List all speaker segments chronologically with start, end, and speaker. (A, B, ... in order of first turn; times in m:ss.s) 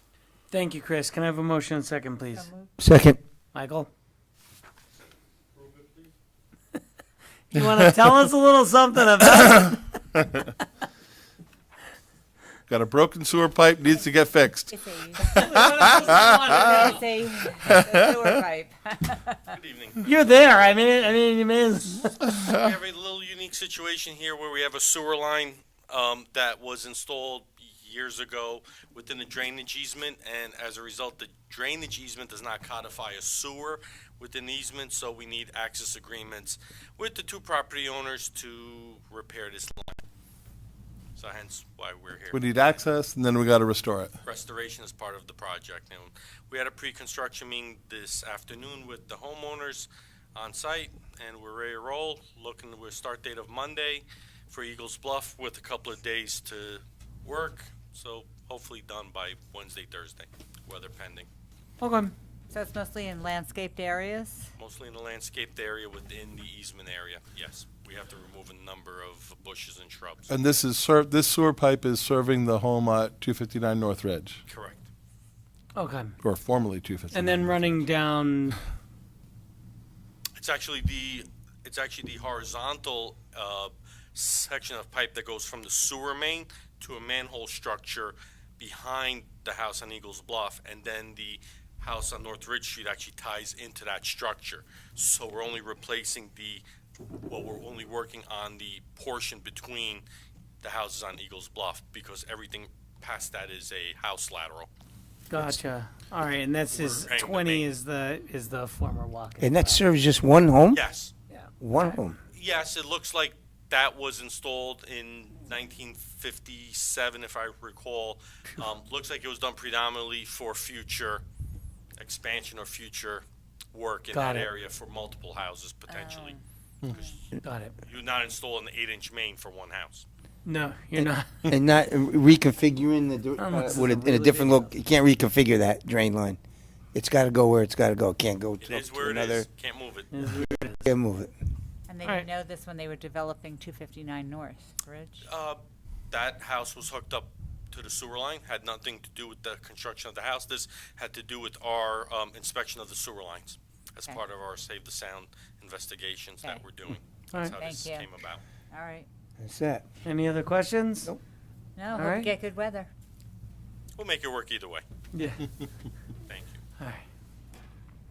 0:00.5-0:02.5 A
0:02.4-0:02.7 B
0:02.8-0:03.2 C
0:03.5-0:03.9 A
0:07.5-0:09.9 A
0:09.5-0:10.5 D
0:12.7-0:14.7 D
0:14.7-0:19.4 B
0:15.2-0:16.7 A
0:15.3-0:16.9 D
0:17.6-0:18.0 D
0:19.5-0:20.7 E
0:20.0-0:22.2 A
0:22.3-0:40.0 E
0:41.2-0:42.4 E
0:42.3-0:44.1 D
0:44.2-1:01.3 E
1:01.8-1:02.1 A
1:02.5-1:04.5 B
1:04.6-1:10.3 E
1:10.3-1:14.4 D
1:14.5-1:14.8 E
1:15.7-1:16.2 A
1:16.2-1:17.8 D
1:17.1-1:18.6 A
1:20.4-1:36.6 E
1:37.2-1:40.0 E
1:40.6-1:44.7 E
1:45.3-1:49.8 A
1:46.7-1:47.7 E
1:49.4-1:50.8 C
1:50.7-1:51.1 E
1:51.3-1:52.0 A
1:51.6-1:52.2 C
1:52.3-2:01.2 E
2:02.0-2:06.4 E
2:04.1-2:04.5 A
2:07.4-2:07.8 A
2:07.8-2:10.0 E
2:10.4-2:11.5 A
2:11.0-2:16.4 C
2:13.4-2:14.7 A
2:16.9-2:19.5 C
2:18.6-2:20.1 E
2:20.1-2:20.9 A
2:20.8-2:21.3 C
2:21.9-2:25.2 B
2:25.2-2:25.6 E
2:26.1-2:38.4 E
2:37.5-2:38.0 B
2:38.7-2:39.0 B
2:39.4-2:39.8 C
2:40.0-2:41.1 A
2:41.8-2:42.9 B
2:41.9-2:42.3 A
2:44.0-2:44.8 E
2:45.1-2:45.4 A
2:46.3-2:46.6 E
2:46.8-2:47.0 A